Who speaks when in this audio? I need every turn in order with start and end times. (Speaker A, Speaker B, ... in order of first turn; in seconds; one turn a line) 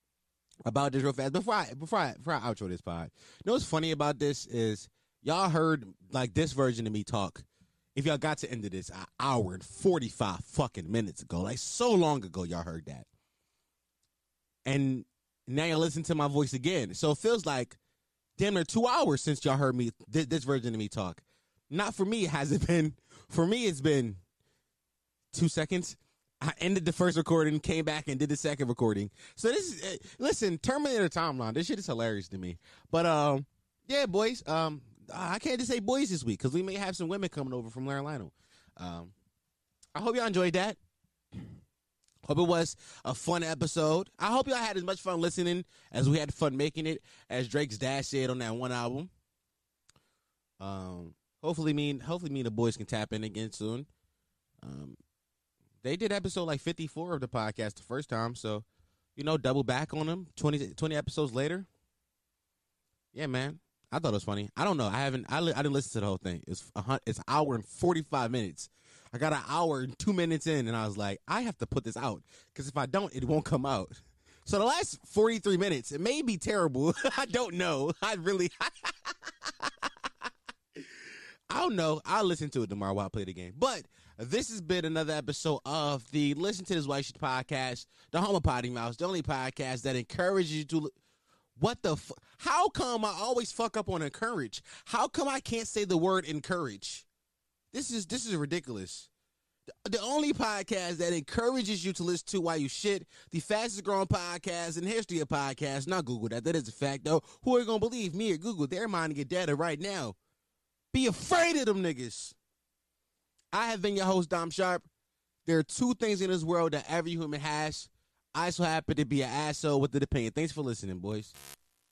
Speaker A: 0.6-13.1
Speaker A: 14.6-17.8
Speaker A: 18.4-24.2
Speaker A: 25.3-39.1
Speaker A: 39.9-40.8
Speaker A: 42.2-49.1
Speaker A: 50.6-53.9
Speaker A: 54.6-55.0
Speaker A: 55.8-61.7
Speaker A: 63.1-80.3
Speaker A: 81.5-90.9
Speaker A: 91.6-97.0
Speaker A: 97.7-99.1
Speaker A: 99.8-110.2
Speaker A: 110.9-112.3
Speaker A: 113.5-114.8
Speaker A: 115.5-121.3